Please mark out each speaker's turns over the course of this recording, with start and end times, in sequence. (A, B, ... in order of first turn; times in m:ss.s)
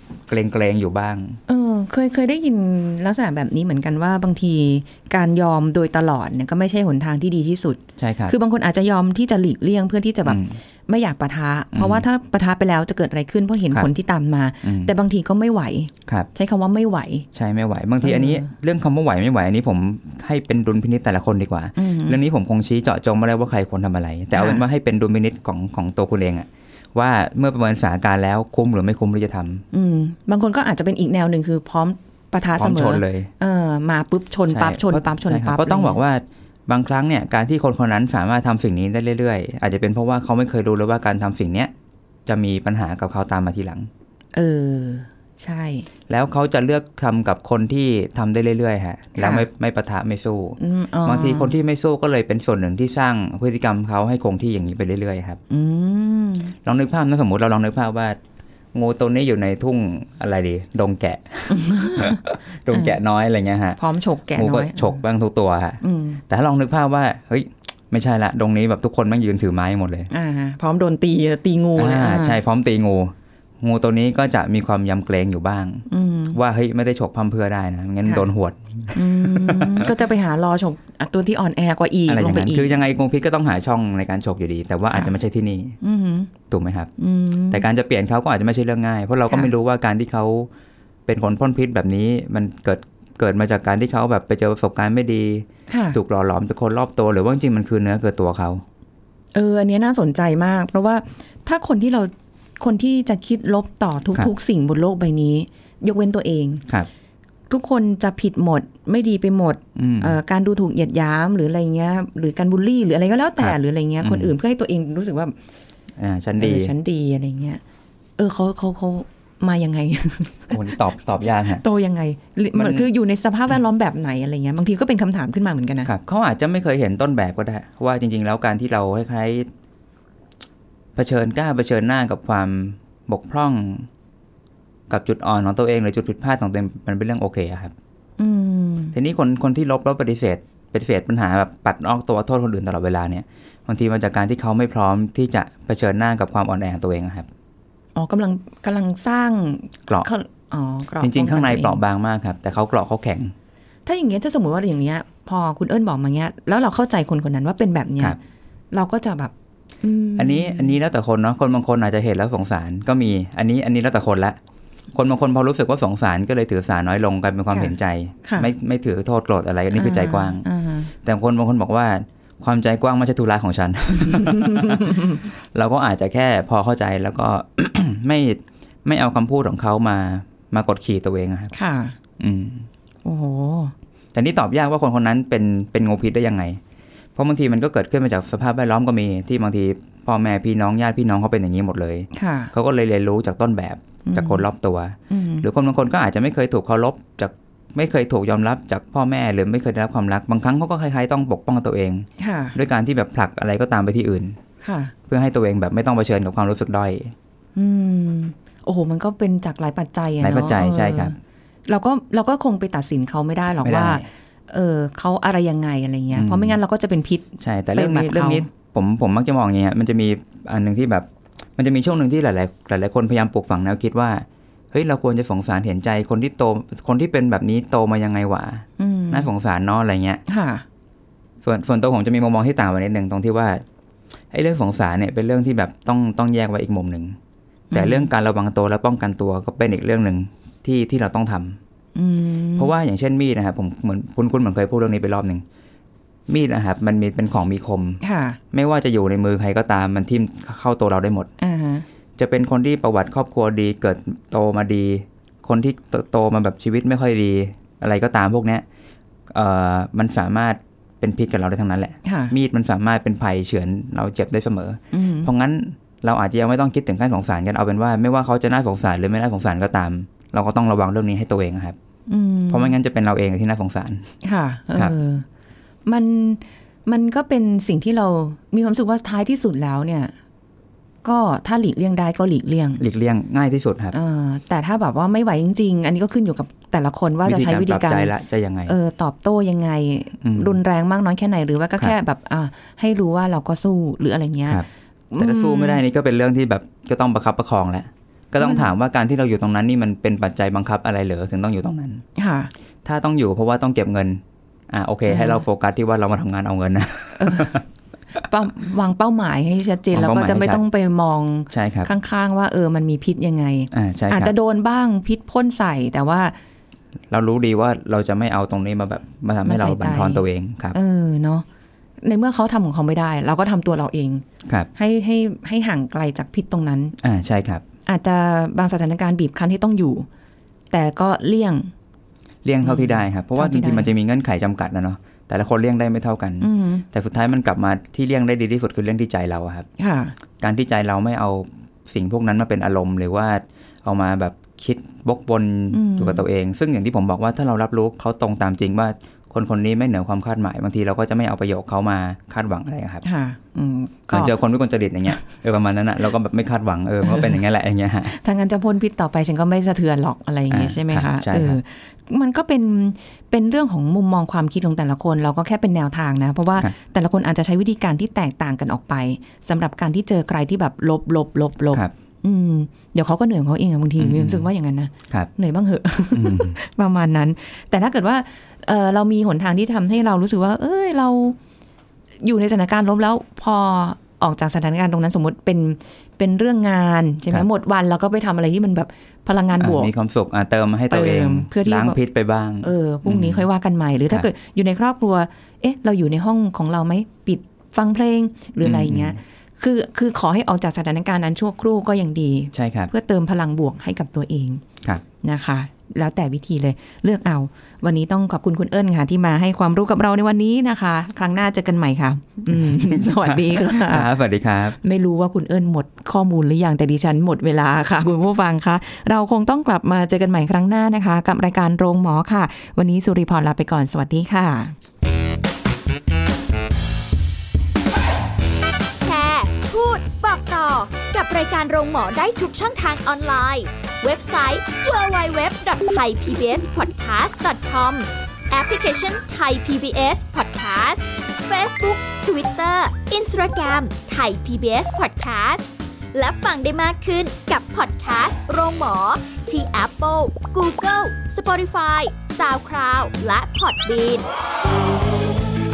0:00.3-0:01.4 A
0:01.5-0:17.3 B
0:08.0-0:08.4 A
0:10.2-0:10.6 A
0:11.7-0:12.0 A
0:14.6-0:14.9 A
0:17.3-0:29.6 A
0:18.0-0:18.5 B
0:21.8-0:22.2 B
0:24.3-0:24.6 B
0:29.7-0:36.0 B
0:32.6-0:33.3 A
0:34.5-0:41.7 A
0:42.3-0:43.9 A
0:44.4-0:45.9 B
0:46.1-0:55.4 A
0:49.2-0:49.5 B
0:50.6-0:51.5 B
0:55.5-0:56.5 B
0:56.6-0:58.2 A
0:58.7-1:03.8 A
1:01.5-1:03.0 B
1:03.8-1:05.0 B
1:04.4-1:10.1 A
1:05.8-1:06.2 B
1:10.1-1:12.4 B
1:11.8-1:19.9 A
1:15.9-1:16.4 B
1:18.0-1:18.3 B
1:18.9-1:22.8 B
1:22.1-1:25.8 A
1:25.8-1:26.3 B
1:26.5-1:26.9 A
1:27.0-1:27.6 B
1:27.5-1:30.5 A
1:31.1-1:38.6 A
1:35.7-1:36.0 B
1:39.4-1:46.6 B
1:47.5-1:55.4 B
1:49.8-1:50.2 A
1:53.4-1:54.3 A
1:56.0-1:56.7 A
1:56.4-1:57.6 B
1:58.2-2:00.6 B
2:00.5-2:01.6 A
2:01.5-2:05.9 B
2:02.5-2:02.9 A
2:05.8-2:09.5 A
2:11.0-2:13.9 A
2:14.9-2:17.7 A
2:18.2-2:19.0 B
2:18.9-2:27.3 A
2:28.0-2:31.8 B
2:31.0-2:33.3 A
2:33.9-2:38.2 B
2:38.7-2:39.3 B
2:39.8-2:40.8 B
2:40.2-2:44.4 A
2:44.9-2:50.5 A
2:48.2-2:48.5 B
2:49.7-2:50.9 B
2:51.0-3:01.5 A
2:54.1-2:55.1 B
3:01.5-3:02.0 B
3:02.2-3:02.7 A
3:03.0-3:03.7 B
3:04.1-3:06.6 A
3:07.2-3:24.4 A
3:12.1-3:12.5 B
3:14.0-3:14.5 B
3:15.1-3:15.5 B
3:22.2-3:22.6 B
3:24.6-3:24.9 B
3:25.1-3:27.2 A
3:27.6-3:31.2 B
3:30.2-3:31.2 A
3:31.7-3:38.5 B
3:33.6-3:34.0 A
3:36.1-3:36.6 A
3:37.4-3:50.2 A
3:48.8-3:49.3 B
3:50.3-3:50.6 B
3:51.4-3:53.6 A
3:54.3-3:57.2 A
3:57.7-3:58.1 B
3:57.7-4:01.6 A
4:02.0-4:02.7 B
4:02.6-4:05.4 A
4:06.3-4:11.3 A
4:08.0-4:08.4 B
4:11.4-4:11.8 B
4:12.2-4:18.6 A
4:19.3-4:31.8 A
4:22.0-4:22.3 B
4:24.9-4:25.3 B
4:32.1-4:32.8 B
4:32.5-4:34.2 A
4:34.2-4:35.3 B
4:35.9-4:40.1 B
4:41.0-4:42.8 B
4:42.8-4:44.0 A
4:43.9-4:48.1 B
4:47.2-4:48.8 A
4:48.7-4:55.8 B
4:50.2-4:50.6 A
4:55.2-5:02.0 A
4:58.4-4:58.7 B
5:02.2-5:02.5 B
5:02.8-5:07.6 A
5:05.1-5:05.4 B
5:07.2-5:07.6 B
5:08.2-5:16.4 B
5:09.9-5:10.6 A
5:11.5-5:11.9 A
5:13.7-5:14.3 A
5:17.1-5:20.8 A
5:19.4-5:21.4 B
5:22.0-5:27.0 B
5:27.0-5:27.6 A
5:27.9-5:30.1 B
5:30.7-5:31.7 B
5:32.4-5:39.7 A
5:32.6-5:33.9 B
5:36.4-5:36.8 B
5:39.8-5:40.2 B
5:40.4-5:53.0 A
5:45.7-5:46.2 B
5:53.0-5:54.4 B
5:54.1-5:58.2 A
5:57.0-5:57.3 B
5:58.2-6:21.4 B
6:00.5-6:01.6 A
6:14.0-6:14.5 A
6:16.1-6:16.6 A
6:22.2-6:29.9 B
6:29.6-6:33.5 A
6:30.9-6:32.0 B
6:32.6-6:44.6 B
6:38.6-6:39.2 A
6:42.5-6:42.9 A
6:45.2-6:54.1 B
6:52.5-6:54.8 A
6:54.8-7:04.7 B
7:09.0-7:34.3 C